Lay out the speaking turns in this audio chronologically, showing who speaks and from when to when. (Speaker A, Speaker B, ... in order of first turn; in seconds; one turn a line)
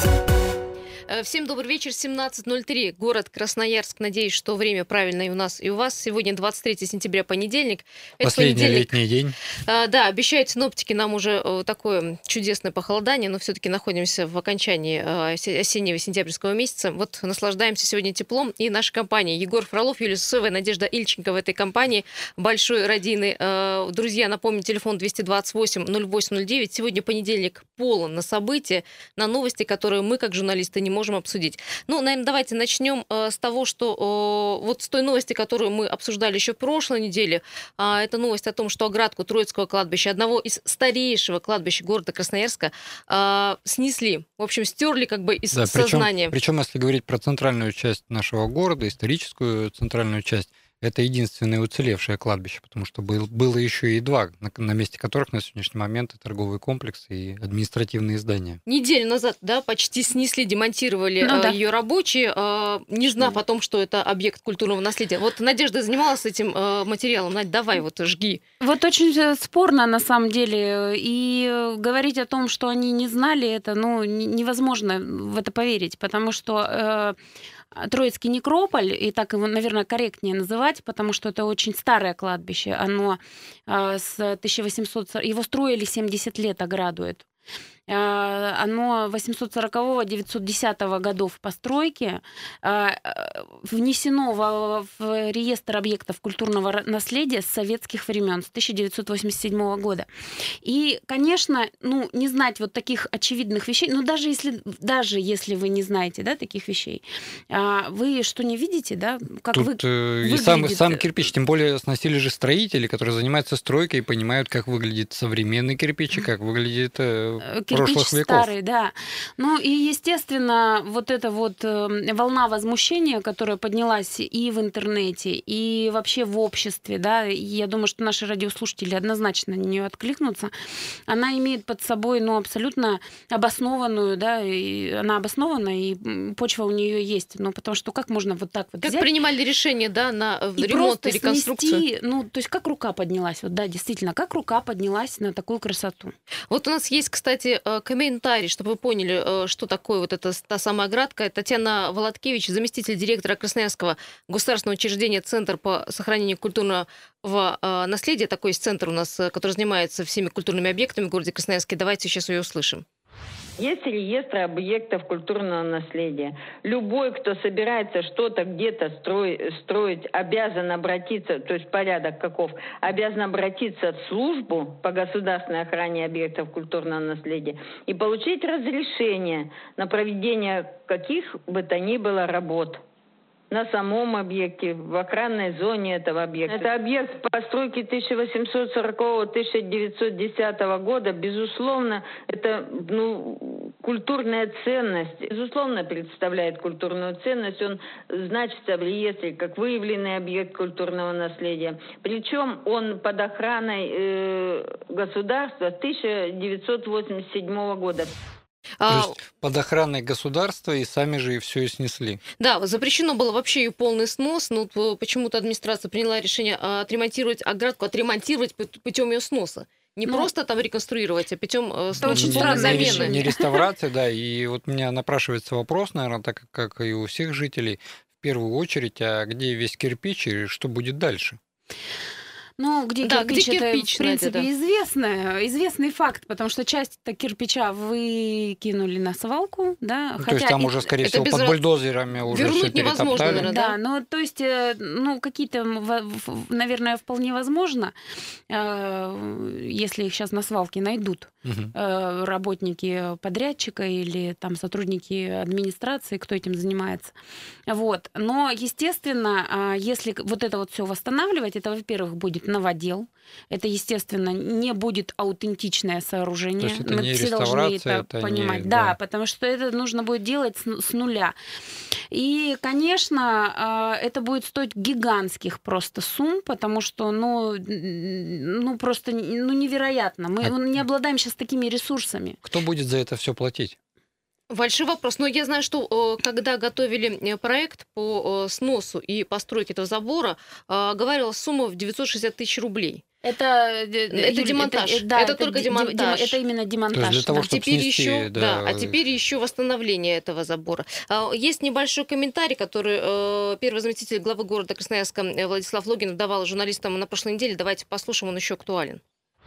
Speaker A: 1.1-8.9
Speaker B: 8.2-9.3
Speaker A: 9.7-46.3
Speaker B: 45.5-58.6
Speaker A: 58.6-68.4
Speaker C: 61.2-61.5
Speaker C: 68.6-77.2
Speaker C: 77.8-87.3
Speaker C: 87.9-100.1
Speaker C: 100.6-111.1
Speaker B: 109.5-118.5
Speaker C: 117.5-130.5
Speaker C: 131.1-139.1
Speaker A: 138.8-141.8
Speaker C: 140.6-146.1
Speaker A: 146.5-162.8
Speaker D: 163.6-182.8
Speaker D: 183.5-208.1
Speaker A: 208.8-209.2
Speaker B: 208.9-212.2
Speaker A: 212.4-223.2
Speaker B: 222.0-231.4
Speaker C: 222.0-223.6
Speaker C: 232.6-240.9
Speaker A: 233.0-234.5
Speaker B: 240.2-243.4
Speaker A: 241.0-241.6
Speaker A: 242.3-243.8
Speaker C: 243.2-247.9
Speaker C: 248.5-257.1
Speaker B: 251.4-251.7
Speaker C: 257.7-271.3
Speaker B: 266.6-268.9
Speaker C: 272.1-282.4
Speaker B: 280.4-280.8
Speaker B: 282.4-283.8
Speaker A: 284.5-293.0
Speaker C: 293.2-297.5
Speaker A: 294.1-296.4
Speaker B: 296.9-299.0
Speaker A: 297.4-309.0